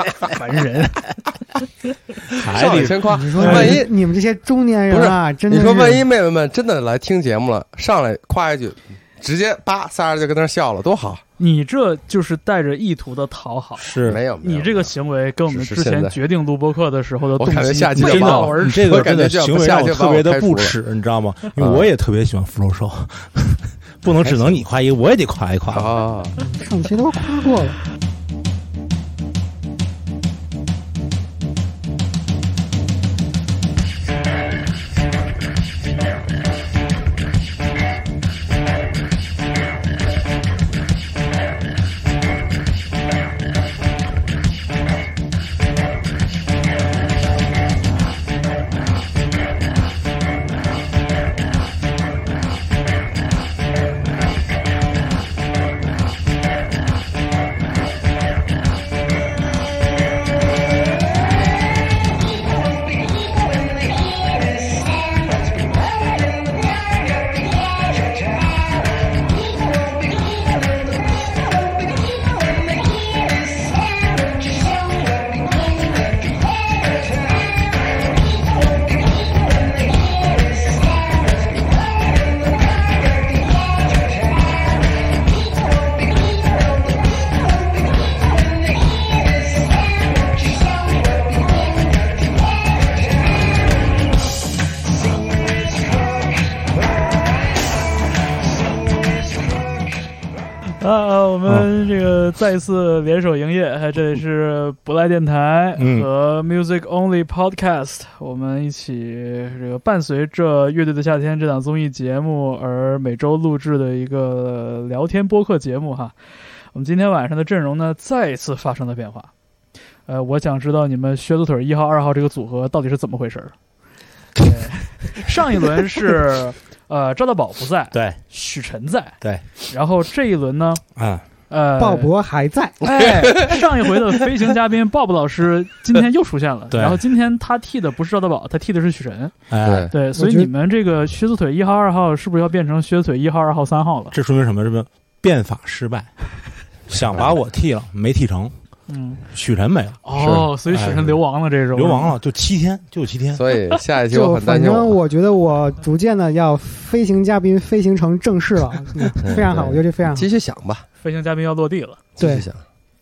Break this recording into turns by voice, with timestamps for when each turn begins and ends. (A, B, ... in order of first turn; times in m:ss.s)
0:00.3-0:01.1 A
0:02.3-0:03.6 B
0:02.4-0:03.9 C
0:03.0-0:06.0 D
0:03.4-0:03.8 A
0:04.9-0:11.2 C
0:11.4-0:19.0 A
0:13.8-0:14.2 B
0:14.0-0:14.9 C
0:15.5-0:16.2 C
0:17.4-0:20.8 C
0:18.0-0:25.9 B
0:21.6-0:21.9 C
0:24.1-0:24.6 C
0:25.7-0:26.4 C
0:26.4-0:27.8 D
1:40.8-1:59.3 A
1:45.8-1:46.1 B
2:00.0-2:03.5 A
2:04.4-2:10.8 A
2:07.9-2:08.2 B
2:09.2-2:09.5 B
2:11.0-2:11.2 B
2:11.5-2:12.1 A
2:11.8-2:12.8 D
2:12.8-2:19.3 A
2:16.7-2:17.0 B
2:19.5-2:19.9 B
2:19.6-2:19.9 C
2:19.9-2:24.1 A
2:20.2-2:20.5 D
2:24.1-2:26.2 B
2:26.9-2:28.5 B
2:26.9-2:27.4 C
2:28.9-2:29.2 A
2:29.3-2:30.0 B
2:30.0-2:32.1 A
2:30.1-2:30.5 C
2:30.6-2:31.2 B
2:31.7-2:33.4 B
2:33.3-2:35.0 C
2:34.1-2:40.3 D
2:39.2-2:40.8 C
2:41.0-2:42.0 A
2:42.2-2:42.6 C
2:42.2-2:42.5 D